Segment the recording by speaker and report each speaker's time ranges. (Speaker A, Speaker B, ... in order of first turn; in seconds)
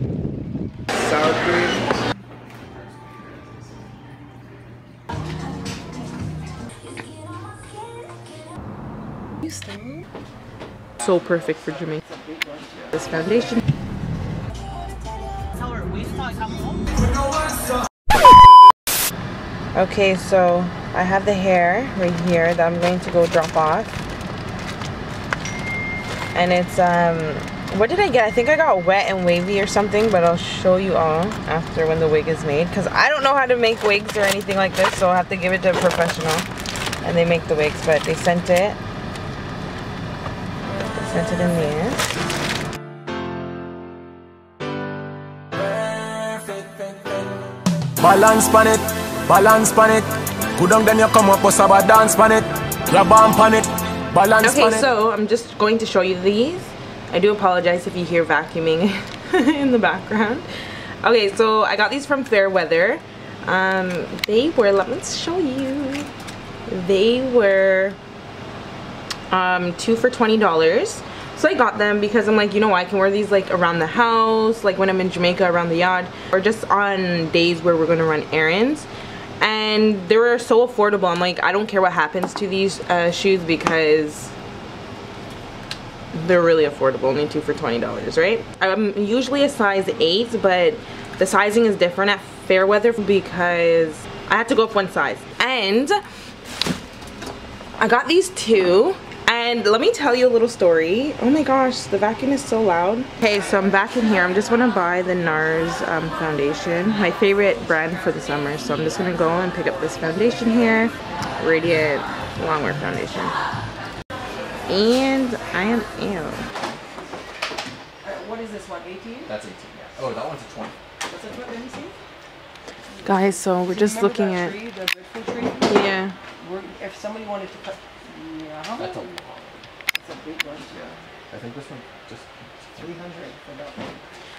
Speaker A: 0.9-1.8, 11.0-12.0, 12.9-13.6, 19.8-24.0, 26.3-36.5, 37.0-38.8, 40.9-42.0, 54.4-60.5, 61.0-66.1, 66.7-68.0, 69.3-78.9, 79.4-84.3, 86.1-96.0, 97.8-113.3, 114.7-116.5, 123.0-124.6, 125.7-126.2
Speaker B: 12.0-12.9, 15.6-16.8, 118.0-119.3, 121.0-121.9, 123.7-125.7, 126.4-129.1, 129.9-131.0, 132.8-134.0
Speaker C: 48.0-54.8
Speaker D: 119.3-120.8, 128.8-129.6, 131.3-132.9